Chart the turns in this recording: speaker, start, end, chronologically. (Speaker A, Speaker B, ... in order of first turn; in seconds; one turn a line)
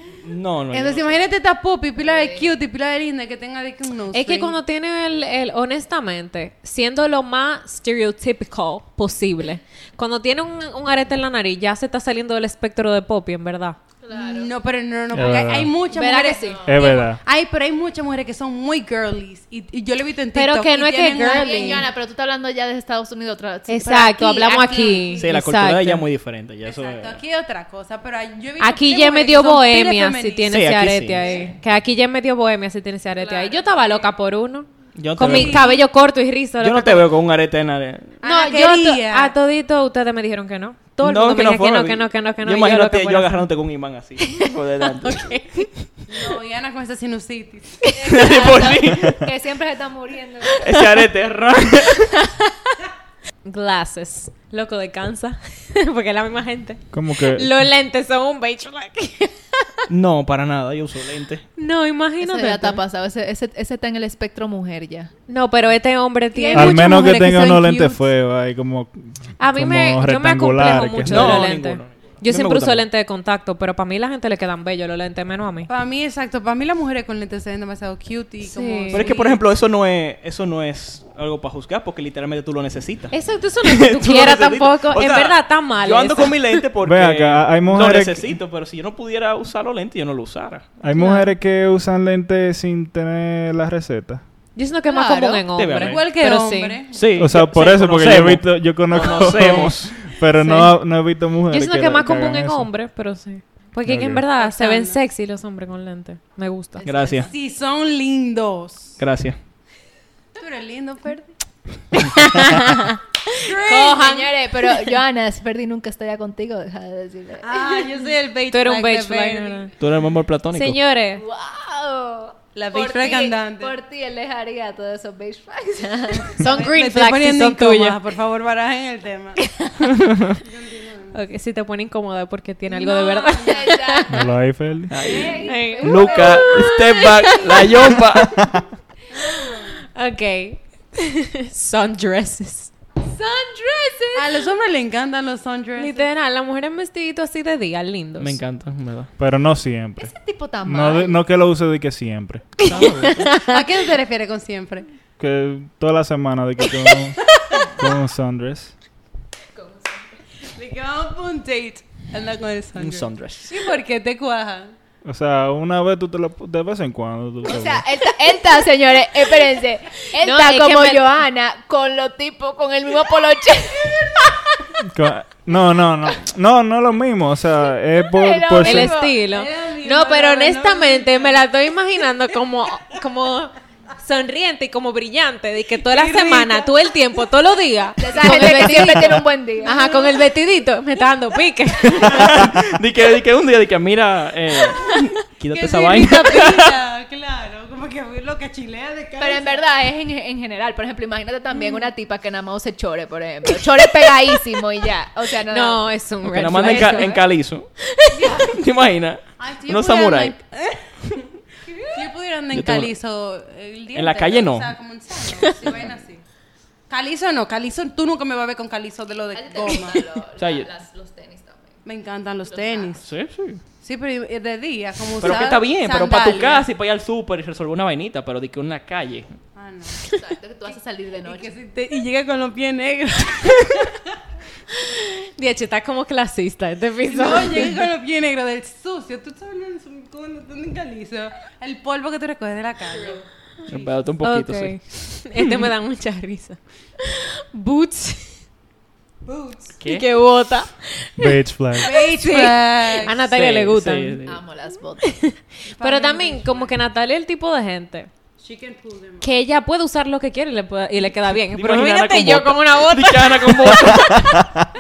Speaker A: 0.2-1.2
Speaker B: 0.7-4.6
Speaker C: 2.0-2.5
Speaker D: 4.1-13.8
Speaker C: 14.0-14.5
Speaker B: 14.1-21.9
Speaker E: 15.1-15.8
Speaker D: 15.9-16.8
Speaker C: 15.9-17.1
Speaker E: 16.6-17.2
Speaker D: 20.3-21.9
Speaker C: 21.2-25.3
Speaker D: 23.7-26.1
Speaker A: 25.2-27.2
Speaker B: 26.6-30.6
Speaker D: 28.6-37.1
Speaker A: 30.5-31.4
Speaker B: 31.2-31.6
Speaker B: 33.2-34.1
Speaker A: 35.0-35.7
Speaker B: 35.2-35.8
Speaker A: 36.6-38.2
Speaker B: 38.2-39.3
Speaker D: 38.2-43.5
Speaker A: 41.0-45.6
Speaker D: 44.3-45.7
Speaker B: 46.1-47.9
Speaker D: 47.8-48.1
Speaker C: 47.9-50.7
Speaker A: 48.1-49.3
Speaker A: 50.6-52.2
Speaker D: 53.5-59.9
Speaker E: 56.9-57.5
Speaker A: 59.9-61.5
Speaker D: 61.6-62.8
Speaker C: 62.2-65.1
Speaker D: 65.3-67.2
Speaker B: 66.3-68.0
Speaker E: 66.5-71.5
Speaker D: 69.4-75.7
Speaker A: 71.1-72.9
Speaker B: 75.7-79.3
Speaker D: 78.4-79.3
Speaker A: 78.9-90.7
Speaker D: 83.1-86.6
Speaker E: 86.8-88.4
Speaker E: 90.8-94.2
Speaker D: 90.9-91.3
Speaker D: 94.5-96.8
Speaker C: 94.9-95.5
Speaker A: 95.5-96.0
Speaker B: 95.8-97.3
Speaker A: 96.9-100.0
Speaker E: 97.2-102.7
Speaker D: 100.2-100.8
Speaker D: 101.5-106.9
Speaker E: 103.8-104.3
Speaker B: 104.3-105.0
Speaker C: 106.8-107.4
Speaker A: 106.8-107.3
Speaker B: 107.2-109.0
Speaker A: 109.0-109.4
Speaker B: 110.4-111.3
Speaker D: 112.0-113.0
Speaker B: 113.3-114.4
Speaker C: 113.5-118.0
Speaker B: 117.4-119.7
Speaker D: 118.5-119.7
Speaker A: 119.8-120.8
Speaker D: 120.5-121.2
Speaker C: 121.1-126.7
Speaker B: 122.5-123.8
Speaker B: 126.3-129.4
Speaker D: 126.4-128.0
Speaker B: 130.4-131.2
Speaker D: 131.1-134.1
Speaker B: 132.7-133.7
Speaker C: 133.2-134.3
Speaker E: 134.1-134.9
Speaker A: 134.9-138.7
Speaker C: 135.0-137.9
Speaker D: 135.4-138.0
Speaker B: 139.1-139.8
Speaker D: 139.9-142.7
Speaker C: 143.1-144.4
Speaker B: 144.2-146.1
Speaker D: 145.8-148.4
Speaker A: 148.2-149.1
Speaker E: 149.2-152.7
Speaker C: 150.0-151.2
Speaker D: 152.6-153.6
Speaker A: 152.7-153.3
Speaker B: 153.3-154.9
Speaker E: 155.2-158.8
Speaker C: 159.6-160.1
Speaker B: 160.5-164.7
Speaker A: 162.8-163.5
Speaker E: 165.1-167.8
Speaker C: 167.4-174.8
Speaker D: 170.1-171.2
Speaker E: 174.8-179.1
Speaker C: 178.0-179.2
Speaker D: 178.6-192.3
Speaker B: 179.2-181.5
Speaker B: 185.8-186.8
Speaker C: 188.0-190.0
Speaker B: 188.3-189.1
Speaker B: 189.6-190.2
Speaker A: 191.9-196.8
Speaker B: 195.5-199.6
Speaker C: 199.2-205.9
Speaker B: 201.5-201.9
Speaker D: 205.5-207.2
Speaker A: 206.2-207.7
Speaker C: 206.6-207.2
Speaker D: 207.9-208.5
Speaker A: 208.4-210.4
Speaker B: 209.4-216.2
Speaker A: 212.5-212.9
Speaker A: 213.9-214.7
Speaker B: 216.9-220.2
Speaker C: 219.3-221.8
Speaker A: 220.4-220.7
Speaker B: 221.8-223.1
Speaker C: 222.4-223.0
Speaker A: 223.0-223.6
Speaker B: 223.8-226.7
Speaker A: 225.2-229.4
Speaker B: 229.6-230.1
Speaker C: 230.1-231.5
Speaker B: 230.7-234.0
Speaker D: 234.8-237.7
Speaker B: 237.1-243.9
Speaker A: 243.7-245.5
Speaker D: 244.2-248.4
Speaker B: 249.2-249.8
Speaker A: 249.8-250.1
Speaker D: 249.8-254.2
Speaker E: 251.2-251.9
Speaker B: 251.8-253.3
Speaker A: 253.3-254.4
Speaker C: 254.3-255.2
Speaker D: 255.0-258.1
Speaker B: 255.7-256.8
Speaker B: 258.4-259.3
Speaker D: 259.2-263.8
Speaker A: 261.5-264.4